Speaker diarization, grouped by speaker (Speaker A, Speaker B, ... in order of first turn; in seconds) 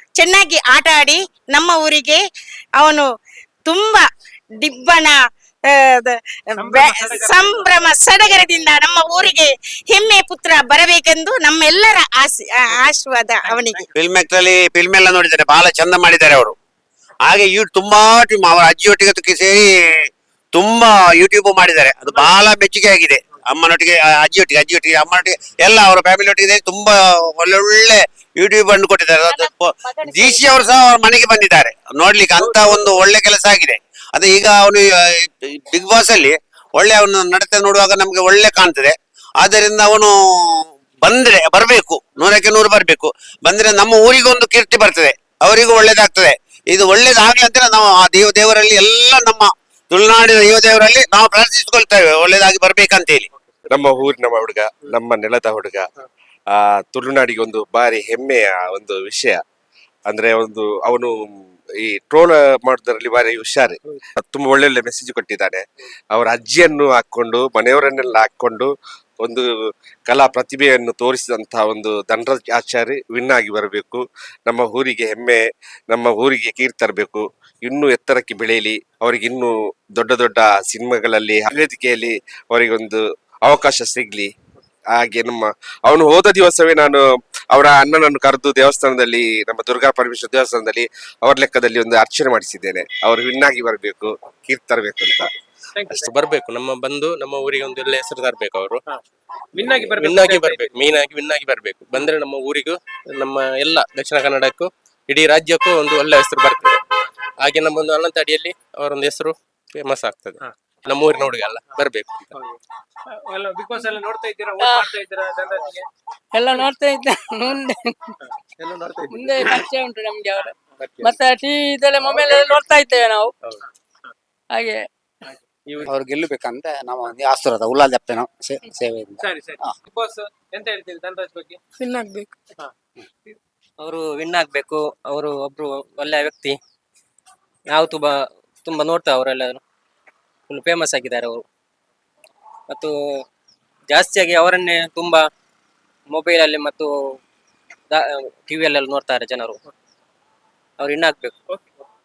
Speaker A: 0.2-2.2, 2.8-3.1, 3.7-4.1, 4.6-13.9, 29.3-30.6
Speaker B: 6.6-7.9, 13.4-13.9, 32.5-32.9, 95.8-96.1, 99.5-100.8, 113.2-115.9, 129.2-131.6
Speaker C: 13.9-16.6, 17.3-20.0, 20.5-53.3
Speaker D: 53.7-55.9, 56.5-59.4, 60.1-61.2, 61.8-65.6, 66.2-68.7, 70.1-75.4, 75.9-84.3, 85.0-95.3
Speaker E: 96.1-98.8, 99.7-106.8, 107.4-110.3, 110.9-112.2
Speaker F: 114.6-114.9, 116.3-118.0, 119.1-123.3, 124.5-124.9, 131.8-132.3
Speaker G: 125.9-129.7
Speaker H: 133.8-136.6, 137.7-139.6, 140.5-141.4, 142.7-143.2, 143.9-145.3, 146.1-147.2, 147.9-149.6, 150.8-151.3